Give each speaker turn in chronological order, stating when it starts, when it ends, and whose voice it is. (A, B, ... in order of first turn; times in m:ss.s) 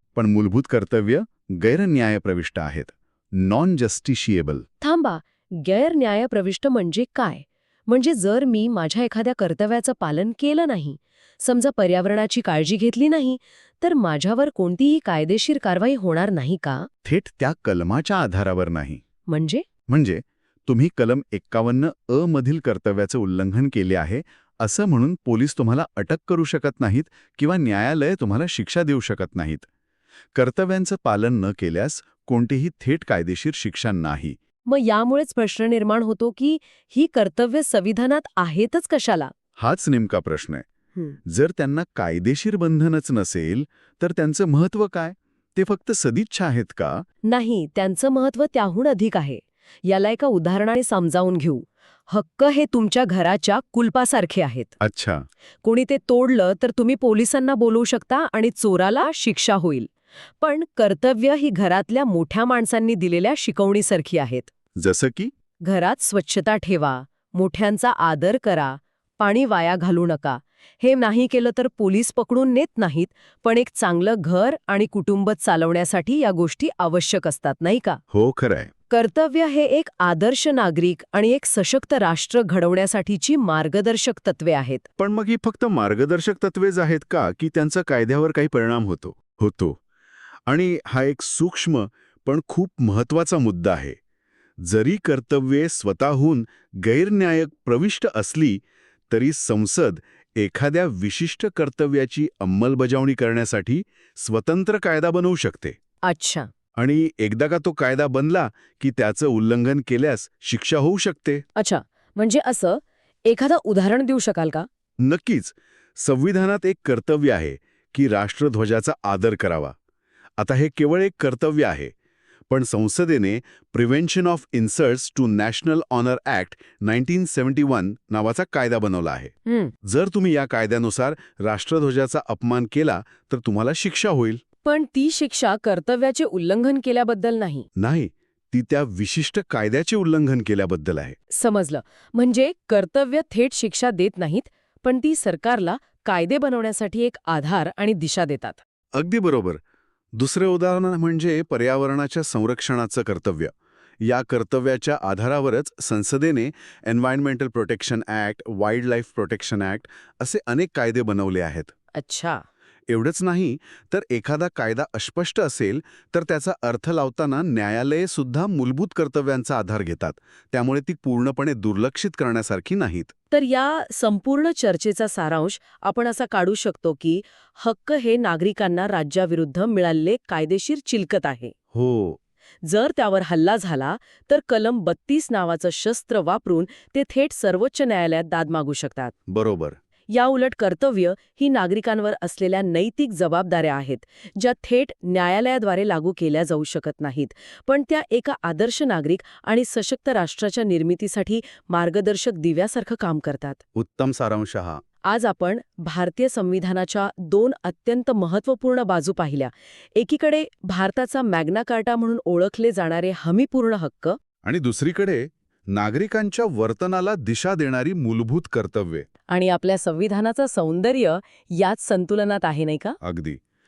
0:00.2-0:04.6 A
0:04.8-0:16.9 B
0:17.0-0:19.0 A
0:19.3-0:19.6 B
0:19.9-0:29.6 A
0:30.3-0:34.4 A
0:34.6-0:39.3 B
0:39.6-0:40.6 A
0:41.2-0:47.0 A
0:47.2-0:54.7 B
0:54.8-0:55.2 A
0:55.6-1:04.5 B
1:04.8-1:05.3 A
1:05.6-1:18.0 B
1:18.1-1:18.7 A
1:18.9-1:24.8 B
1:25.0-1:29.8 A
1:30.5-1:34.0 A
1:34.6-1:45.8 A
1:46.0-1:46.5 B
1:46.8-1:51.4 A
1:51.5-1:54.6 B
1:55.0-1:59.7 A
2:00.4-2:01.9 A
2:02.5-2:09.3 A
2:09.4-2:09.7 B
2:09.8-2:14.4 A
2:14.6-2:17.7 B
2:17.8-2:21.2 A
2:21.3-2:28.6 B
2:28.9-2:29.6 A
2:30.1-2:41.7 A
2:41.9-2:42.4 B
2:42.9-2:53.1 A
2:53.3-3:01.5 B
3:01.7-3:02.2 A
3:02.6-3:09.1 B
3:09.3-3:09.8 A
3:10.1-3:23.6 B
3:23.7-3:24.8 A
3:25.0-3:34.2 B
3:34.4-3:39.1 A
3:39.3-3:43.0 B
3:43.0-3:43.4 A